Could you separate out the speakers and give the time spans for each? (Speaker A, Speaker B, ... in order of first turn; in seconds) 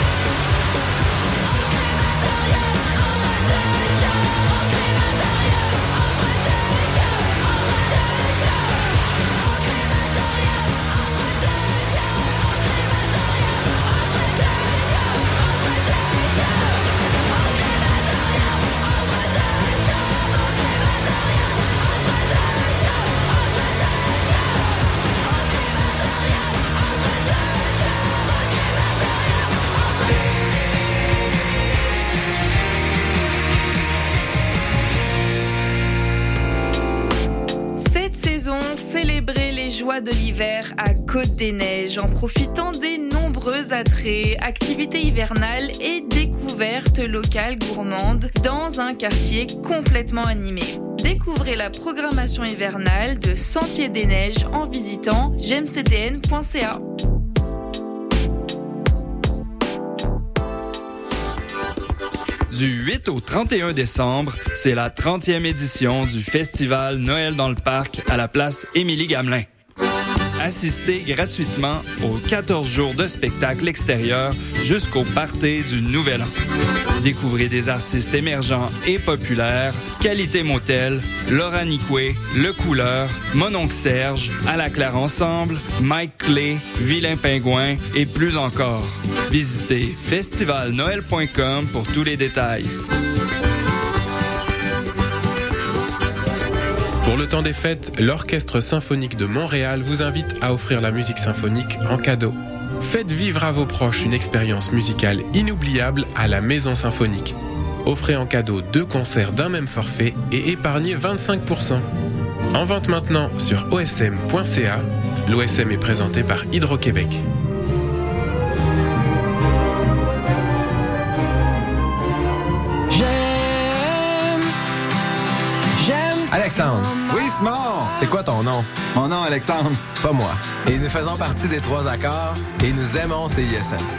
Speaker A: 37.8-56.8
Speaker B: 62.5-69.5, 70.4-76.3, 77.0-92.7
Speaker C: 97.0-107.3, 107.9-111.9, 112.5-117.2
Speaker D: 126.3-127.0, 127.9-128.7, 129.9-133.9
Speaker E: 127.1-128.0, 128.9-129.9